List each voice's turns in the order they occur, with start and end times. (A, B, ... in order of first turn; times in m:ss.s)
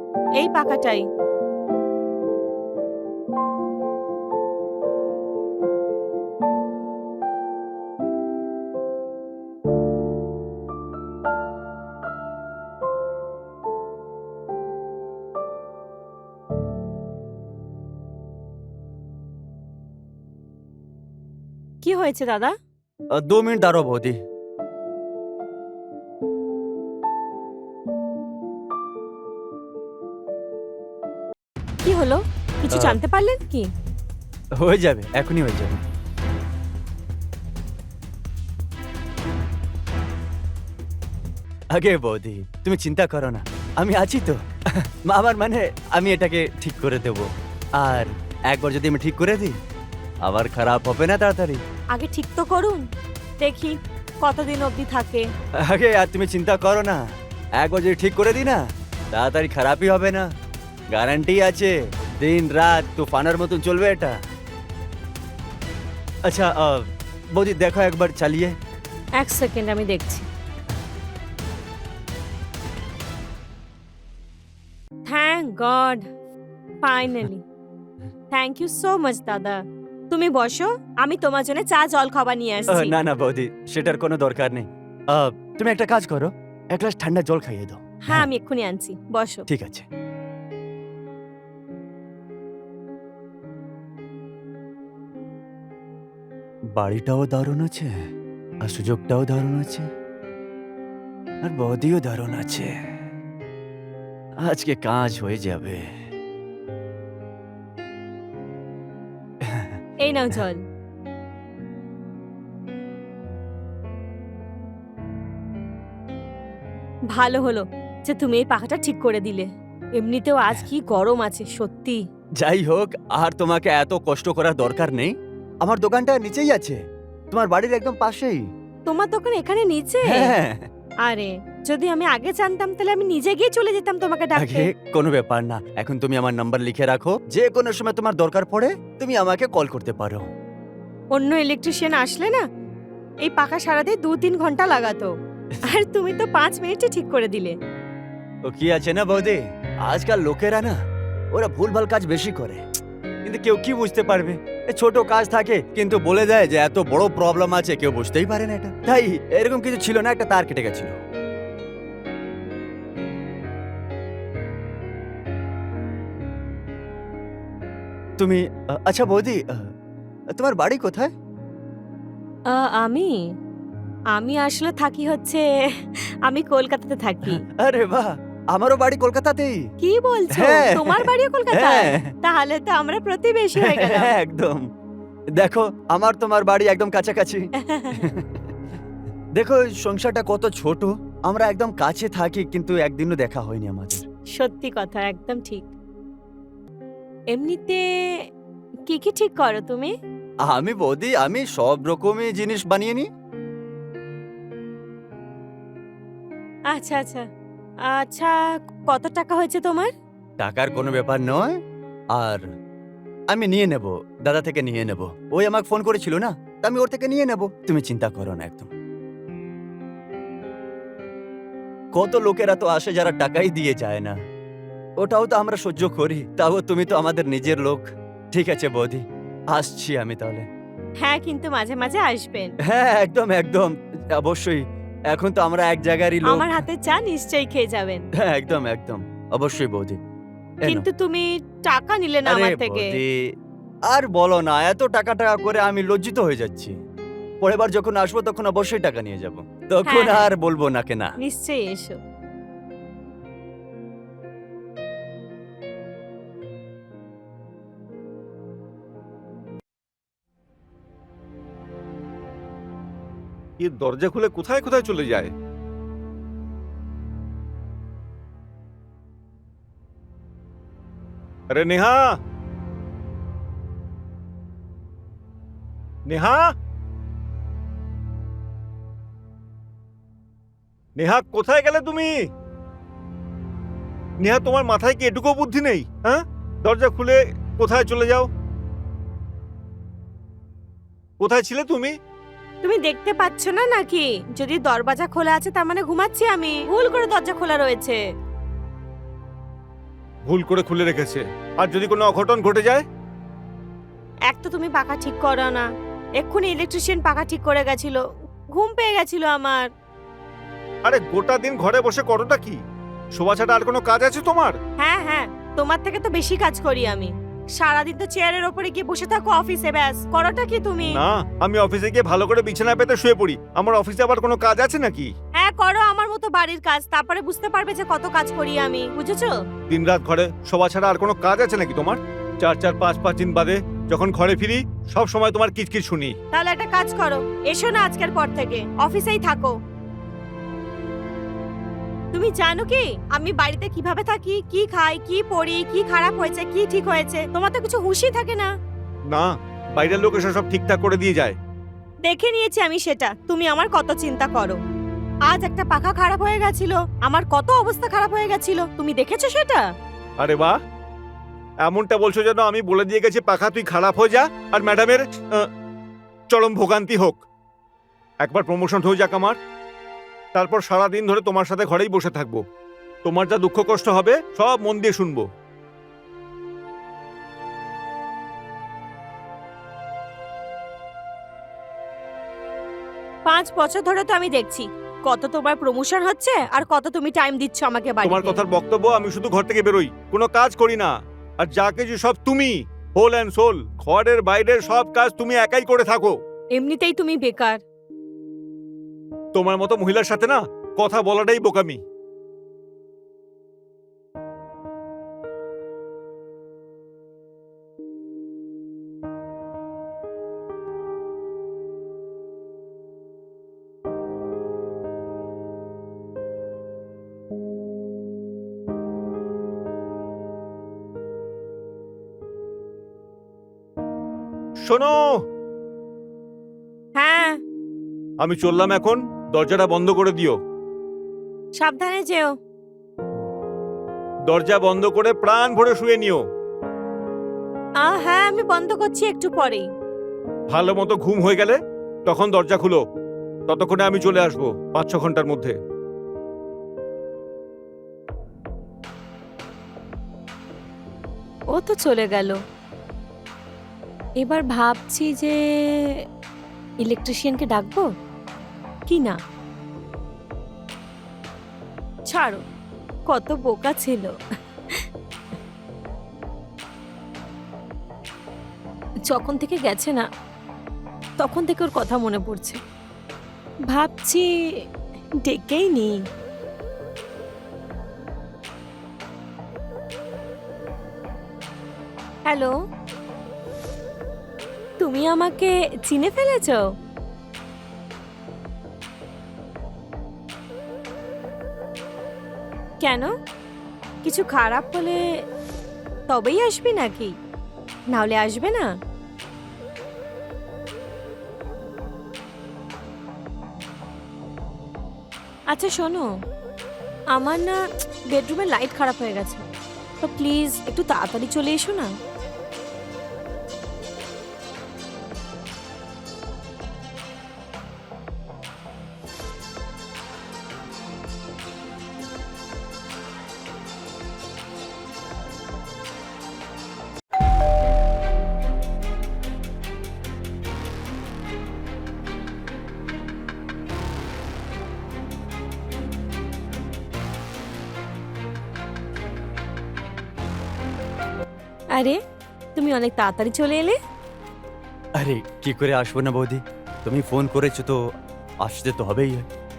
0:00.4-0:01.1 A
0:21.8-0:22.5 A
0:23.2-0:24.2 B
0:31.8-0:33.7 A
0:32.7-0:33.0 B
0:34.6-0:35.8 B
0:41.7-0:49.6 B
0:50.2-0:51.6 B
0:51.9-0:52.8 A
0:53.4-0:55.3 A
0:55.6-0:57.0 B
0:57.6-1:00.3 B
1:00.9-1:04.2 B
1:06.3-1:08.6 B
1:09.2-1:10.3 A
1:15.1-1:16.0 A
1:16.8-1:17.4 A
1:18.3-1:23.0 A
1:22.7-1:28.3 B
1:28.0-1:29.4 A
1:29.5-1:29.9 B
1:36.8-1:38.0 B
1:38.6-1:39.9 B
1:41.4-1:43.0 B
1:44.4-1:46.0 B
1:49.4-1:49.8 B
1:50.0-1:50.6 A
1:57.1-1:59.5 A
2:00.0-2:02.0 A
2:02.4-2:06.8 B
2:07.3-2:08.4 B
2:08.9-2:10.3 A
2:10.1-2:10.7 B
2:11.0-2:14.7 A
2:14.4-2:20.3 B
2:21.1-2:22.4 A
2:23.2-2:25.1 A
2:25.6-2:27.6 A
2:28.4-2:30.8 B
2:31.3-2:32.6 B
2:33.2-2:41.0 B
2:48.2-2:49.7 B
2:50.3-2:51.1 B
2:52.5-2:53.1 A
2:54.2-2:57.4 A
2:57.3-2:59.7 B
2:59.8-3:04.1 A
3:00.3-3:02.1 B
3:03.6-3:04.7 B
3:05.4-3:08.5 B
3:07.6-3:08.1 A
3:09.4-3:14.0 B
3:14.4-3:15.7 A
3:17.3-3:17.8 A
3:18.9-3:19.9 A
3:20.5-3:23.1 B
3:26.7-3:27.2 A
3:27.8-3:28.4 A
3:28.9-3:29.9 A
3:30.4-3:31.6 B
3:32.1-3:32.4 B
3:33.3-3:38.7 B
3:41.9-3:44.2 B
3:45.0-3:50.5 B
3:51.0-3:52.5 A
3:52.6-3:56.6 B
3:56.2-3:58.0 A
3:58.2-4:00.0 B
4:00.7-4:03.0 A
4:02.3-4:03.3 B
4:03.9-4:06.8 B
4:07.4-4:11.2 B
4:09.9-4:10.3 A
4:11.2-4:12.0 A
4:23.6-4:25.3 C
4:31.5-4:32.2 C
4:36.1-4:36.5 C
4:41.0-4:42.2 C
4:44.2-4:48.3 C
4:51.2-4:52.0 C
4:52.6-4:58.0 A
5:00.3-5:02.8 C
5:04.3-5:05.7 A
5:06.2-5:09.7 A
5:10.8-5:12.6 C
5:13.1-5:14.6 C
5:14.8-5:21.0 A
5:20.9-5:25.1 C
5:25.4-5:29.4 A
5:29.7-5:36.2 C
5:36.3-5:39.6 A
5:42.1-5:48.5 A
5:49.1-5:51.4 C
5:52.0-5:54.6 A
5:55.3-5:59.6 A
6:00.2-6:00.6 C
6:01.6-6:05.5 C
6:06.3-6:07.2 C
6:08.2-6:09.4 C
6:10.4-6:12.4 C
6:13.0-6:15.3 C
6:23.3-6:28.4 A
6:28.0-6:36.2 C
6:36.6-6:37.6 A
6:39.3-6:41.8 C
7:04.6-7:05.1 C
7:07.0-7:07.4 A
7:08.2-7:10.4 C
7:11.6-7:12.3 A
7:14.3-7:16.2 C
7:17.8-7:19.7 A
7:20.5-7:22.8 C
7:23.5-7:25.6 C
7:31.5-7:32.4 A
7:34.2-7:35.9 A
7:36.8-7:37.9 A
7:38.9-7:39.2 A
7:42.1-7:42.4 A
7:43.1-7:44.1 A
7:49.1-7:50.0 A
7:51.2-7:52.6 A
7:53.7-7:54.2 A
7:55.2-7:56.0 A
8:02.3-8:02.5 A
8:04.8-8:06.7 A
8:12.8-8:13.1 A
8:14.0-8:15.0 A
8:16.1-8:17.1 A
8:17.9-8:18.6 A
8:25.5-8:26.1 A
8:27.1-8:27.6 A
8:28.1-8:29.4 A
8:30.0-8:31.9 A
9:02.6-9:03.8 A
9:05.0-9:07.8 B
9:08.4-9:09.3 B